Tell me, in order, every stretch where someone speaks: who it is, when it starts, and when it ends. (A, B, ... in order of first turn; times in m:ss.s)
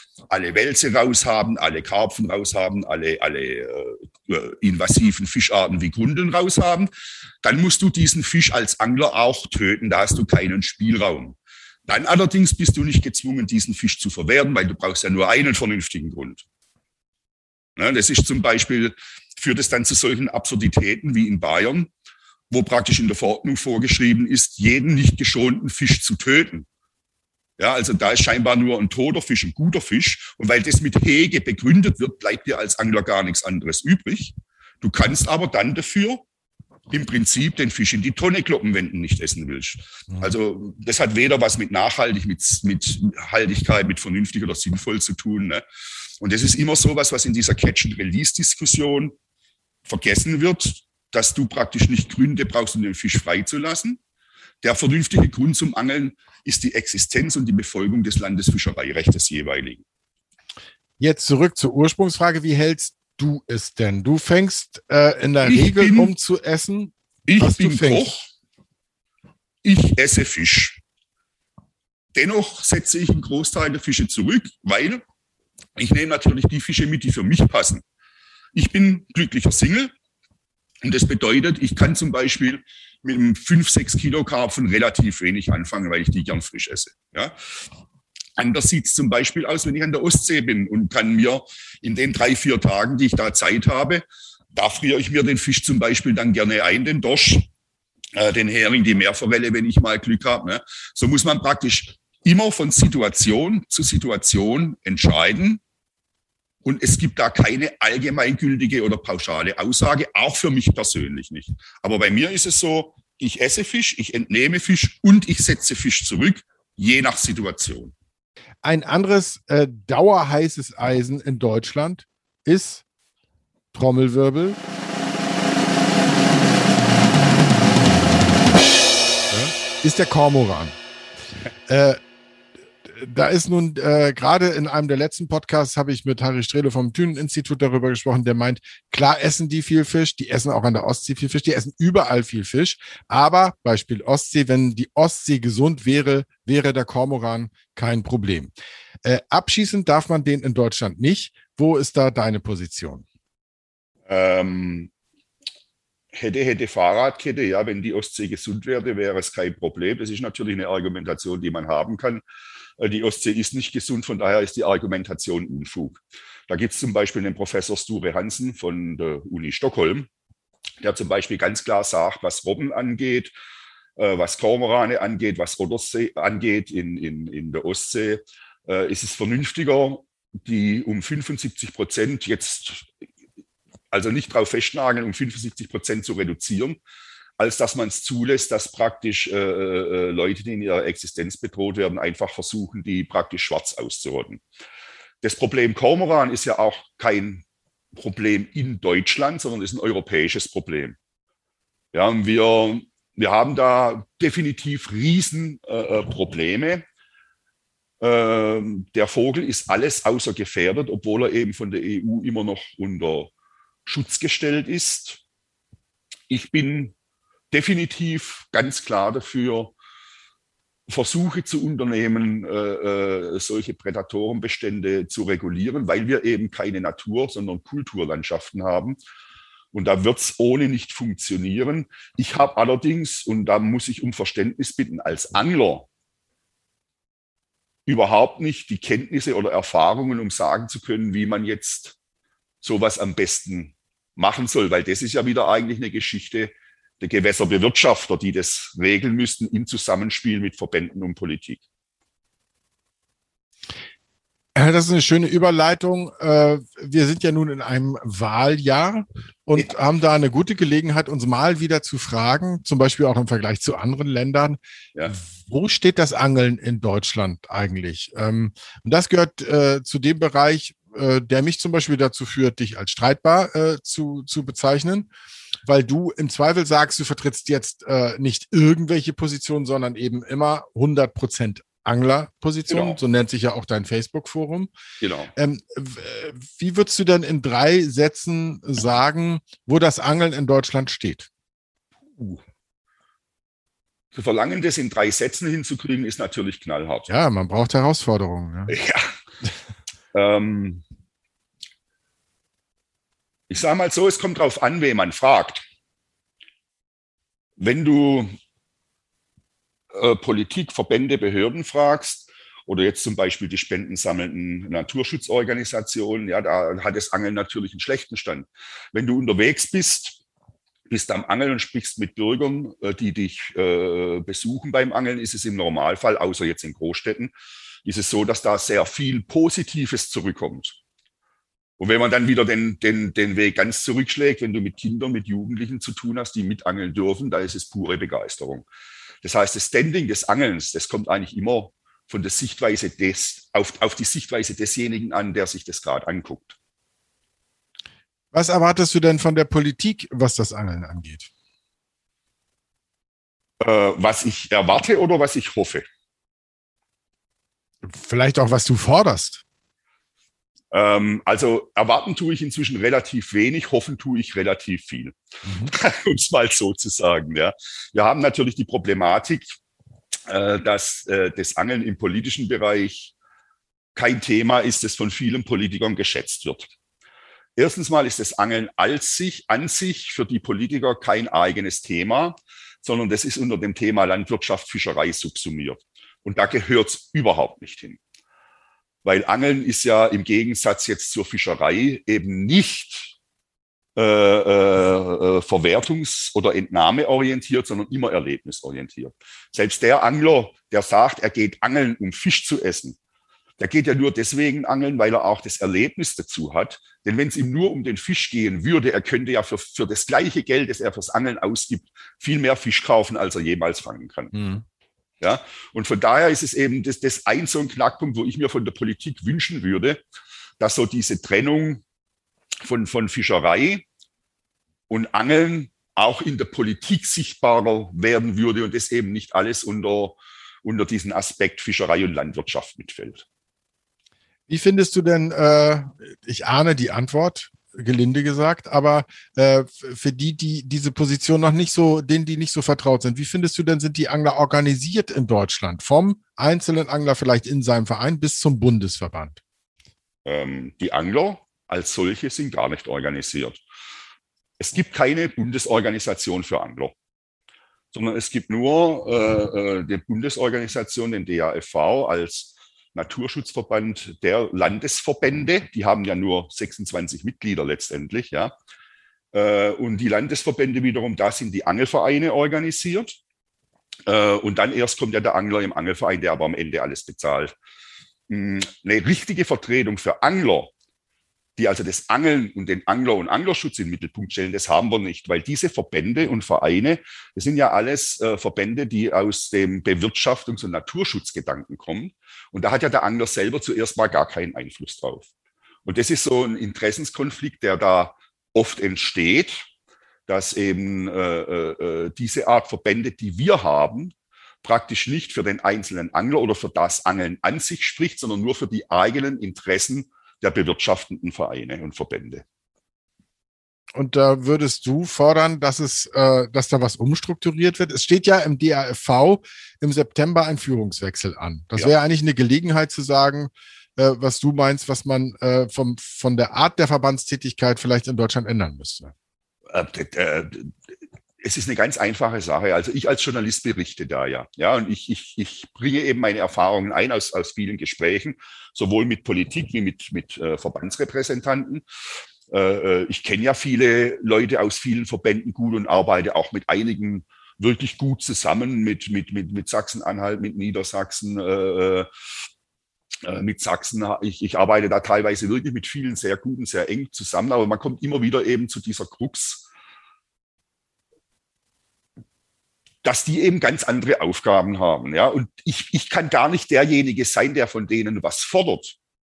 0:00.3-0:06.9 A
0:07.4-0:11.4 A
0:11.9-0:16.4 A
0:17.8-0:21.9 A
0:22.5-0:26.6 A
0:27.6-0:36.2 A
0:36.9-0:45.6 A
0:46.2-0:49.2 A
0:49.8-0:54.0 A
0:54.6-0:59.8 A
1:01.0-1:08.1 B
1:05.4-1:06.1 A
1:07.3-1:08.2 A
1:09.6-1:10.8 A
1:12.1-1:15.0 A
1:15.8-1:17.8 A
1:18.5-1:19.9 A
1:20.8-1:27.4 A
1:28.4-1:37.5 A
1:38.1-1:45.6 A
1:46.6-1:57.9 A
1:58.6-2:02.8 B
2:03.7-2:04.6 B
2:09.3-2:10.8 B
2:11.7-2:12.0 B
2:12.8-2:28.5 B
2:29.0-2:33.0 B
2:34.1-2:34.9 A
2:36.1-2:42.2 A
2:42.8-2:50.1 A
2:50.8-2:53.3 A
2:54.0-3:02.9 A
3:03.9-3:06.8 A
3:07.4-3:14.4 A
3:15.2-3:21.0 A
3:21.9-3:26.8 A
3:28.0-3:33.3 A
3:33.8-3:35.2 A
3:36.3-3:36.9 A
3:37.5-3:39.7 A
3:40.9-3:49.0 A
3:49.7-3:55.9 A
3:57.8-4:02.0 A
4:02.6-4:11.6 A
4:14.6-4:35.1 B
4:35.6-4:44.7 B
4:42.7-4:43.0 A
4:45.0-4:45.3 A
4:45.4-4:51.3 B
4:52.2-4:52.4 A
4:54.1-4:57.1 A
4:57.1-4:58.7 B
4:58.7-4:59.1 A
5:00.1-5:00.8 A
5:03.5-5:05.6 A
5:07.6-5:08.3 A
5:09.9-5:20.2 A
5:20.9-5:27.3 A
5:27.8-5:30.8 A
5:31.8-5:38.6 A
5:39.2-5:46.6 A
5:48.3-5:51.3 B
5:53.6-5:55.9 A
5:57.8-5:59.4 B
6:00.7-6:05.2 A
6:05.4-6:05.7 B
6:05.7-6:09.6 A
6:10.3-6:13.1 A
6:13.9-6:16.7 A
6:17.6-6:28.0 A
6:29.0-6:33.1 A
6:34.0-6:43.0 A
6:43.6-6:54.3 A
6:54.3-6:54.6 B
6:55.2-7:00.0 A
7:00.6-7:01.8 A
7:02.6-7:03.8 A
7:04.9-7:13.2 A
7:14.5-7:29.4 B
7:30.2-7:33.6 A
7:34.6-7:36.9 A
7:37.9-7:48.5 A
7:49.3-7:53.2 A
7:54.0-7:57.5 A
7:58.3-8:00.7 A
8:01.6-8:15.3 A
8:15.8-8:19.7 A
8:20.3-8:32.4 A
8:33.9-8:49.1 B
8:49.7-8:50.8 A
8:51.4-9:01.8 A
9:02.5-9:12.1 A
9:13.2-9:19.7 A
9:23.0-9:29.0 A